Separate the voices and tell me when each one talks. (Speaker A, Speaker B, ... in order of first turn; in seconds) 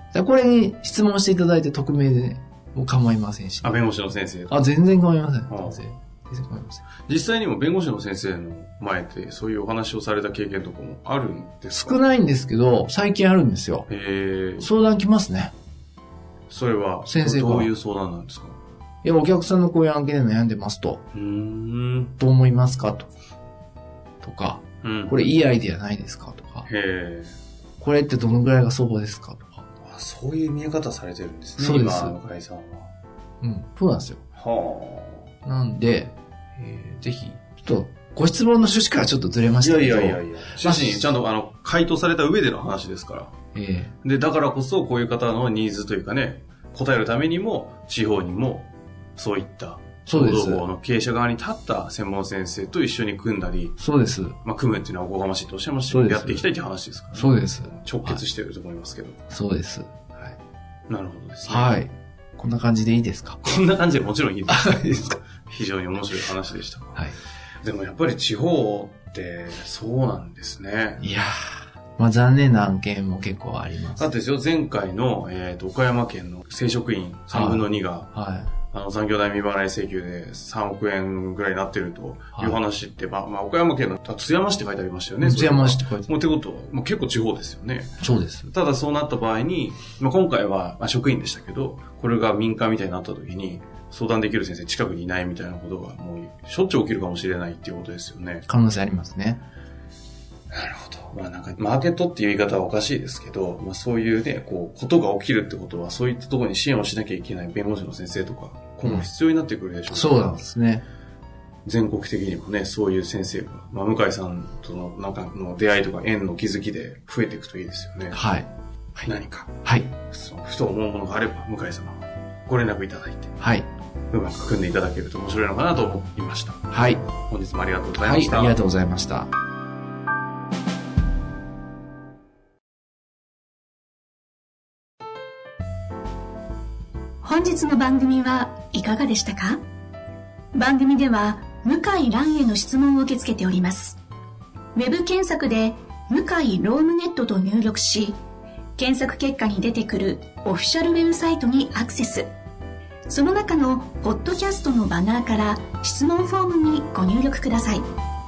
Speaker A: 0.1-3.8, 4.5-6.8, 11.7-13.9, 14.6-15.5, 17.1-17.7, 19.0-21.0, 22.2-23.1, 24.2-26.7, 27.8-29.6, 31.6-32.1, 33.4-34.2, 35.4-41.1, 43.5-43.9, 50.0-50.6, 53.8-54.4, 55.9-56.5, 57.1-58.2, 59.3-60.4, 61.4-63.6, 64.5-64.8, 71.0-74.1, 77.3-78.5, 85.2-86.1, 88.0-88.5, 98.5-99.4, 109.9-110.8, 118.1-119.1, 119.6-119.9, 123.4-123.7, 126.7-127.0, 128.0-129.3
Speaker B: 3.6-4.7, 5.5-5.8, 7.1-12.0, 13.9-14.7, 16.5-18.6, 21.1-22.1, 24.8-25.2, 26.6-27.4, 29.8-32.9, 34.4-35.3, 39.6-43.3, 44.0-53.8, 54.4-59.2, 60.9-61.8, 63.4-67.0, 67.6-71.0, 74.0-78.1, 78.7-98.5, 100.5-110.4, 111.6-118.2, 119.0-119.5, 120.0-123.3, 124.1-126.7, 127.2-128.6
Speaker C: 137.2-139.6, 140.5-144.0, 144.7-148.2, 148.8-152.3, 153.1-157.9